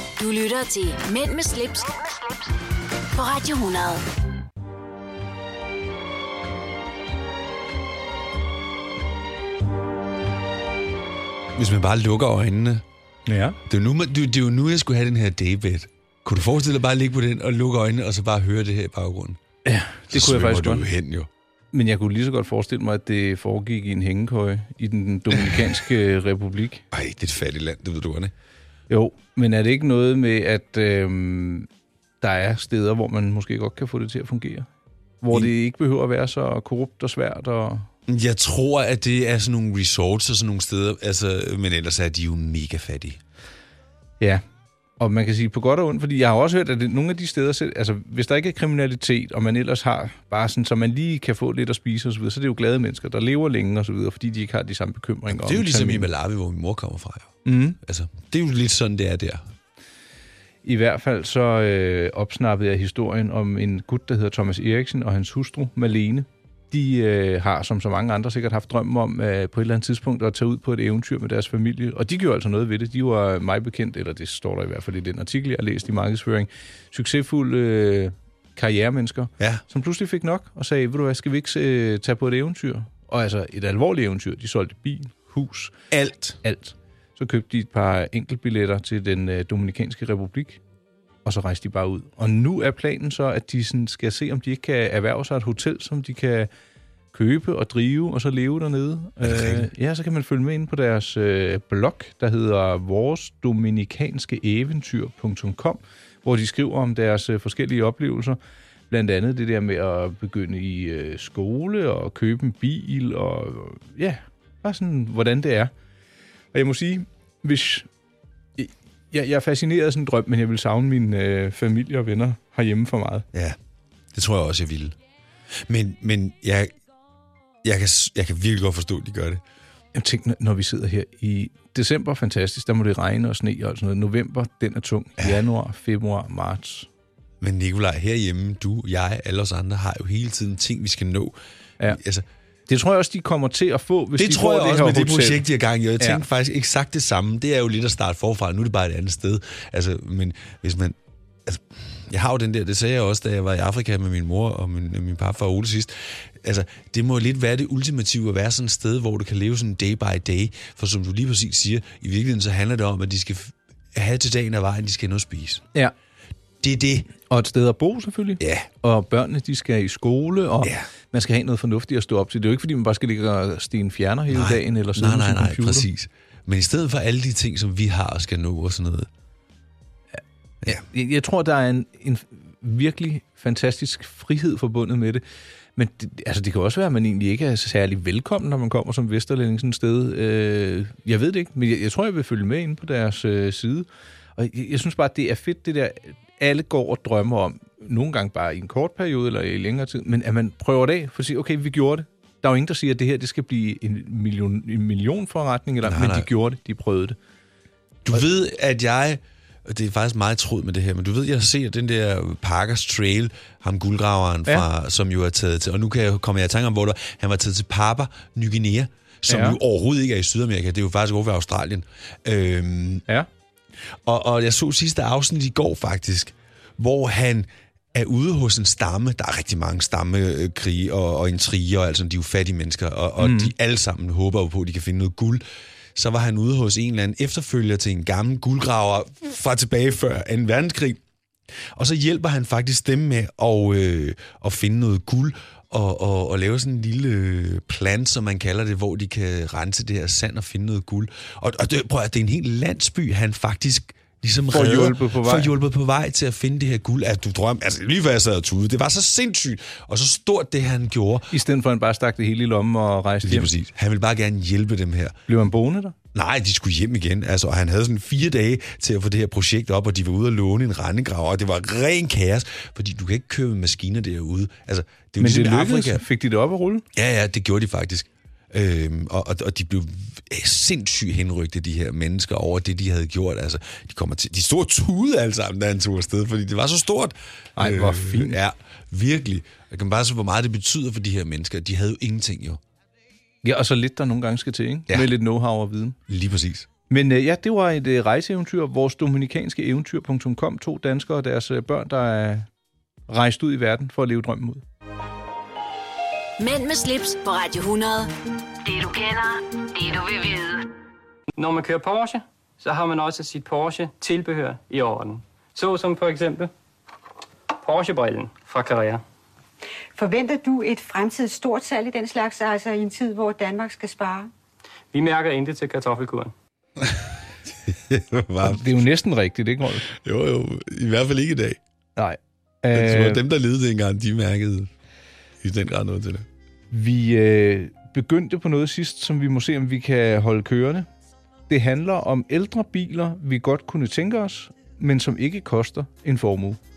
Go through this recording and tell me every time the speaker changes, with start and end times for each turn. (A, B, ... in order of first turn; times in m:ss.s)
0:00.2-0:02.2 A
0:03.1-0:04.0 A
0:11.5-0:12.8 B
0:13.3-0:13.6 C
0:13.6-0:19.4 B
0:19.6-0:20.9 C
0:20.1-0:21.3 B
0:21.7-0:26.8 C
0:26.9-0:28.3 B
0:28.9-0:31.7 C
0:32.2-0:34.7 C
0:35.2-0:37.9 C
0:38.1-0:43.2 B
0:45.0-0:56.1 C
0:55.3-0:59.5 B
0:57.4-0:57.8 C
1:00.6-1:25.8 C
1:25.9-1:26.4 B
1:26.4-1:30.6 C
1:31.2-1:36.5 C
1:37.1-1:48.4 C
1:39.2-1:39.7 B
1:48.9-1:55.7 C
1:56.5-1:57.9 C
1:58.6-2:03.2 C
2:04.1-2:05.0 B
2:05.6-2:06.7 B
2:07.6-2:09.4 B
2:09.9-2:16.9 C
2:17.4-2:21.3 B
2:21.8-2:22.2 B
2:22.7-2:25.4 C
2:24.2-2:45.6 B
2:46.6-2:47.1 B
2:47.2-2:55.9 C
2:48.4-2:48.7 B
2:54.3-2:59.1 B
3:00.6-3:05.2 C
3:05.8-3:27.2 C
3:25.8-3:26.3 B
3:28.0-3:43.0 B
3:39.3-3:39.6 C
3:44.0-3:55.4 B
3:53.2-3:53.5 C
3:55.9-4:01.0 B
4:01.7-4:21.3 B
4:14.5-4:15.5 C
4:21.3-4:23.5 C
4:23.2-4:25.2 B
4:25.3-4:25.9 C
4:26.1-4:36.0 B
4:35.2-4:36.8 C
4:36.9-4:52.6 B
4:47.6-4:48.4 C
4:53.4-4:56.0 C
4:56.1-4:56.7 B
4:56.9-5:02.5 C
5:03.1-5:04.6 C
5:06.4-5:08.1 A
5:08.6-5:10.7 A
5:11.4-5:16.5 D
5:17.6-5:19.0 D
5:19.9-5:24.3 E
5:24.9-5:26.3 D
5:26.8-5:27.1 B
5:27.6-5:28.8 B
5:28.4-5:29.8 C
5:29.9-5:31.6 B
5:32.0-5:33.2 C
5:32.7-5:34.7 B
5:35.4-5:36.2 B
5:36.7-5:40.9 C
5:41.5-5:46.6 C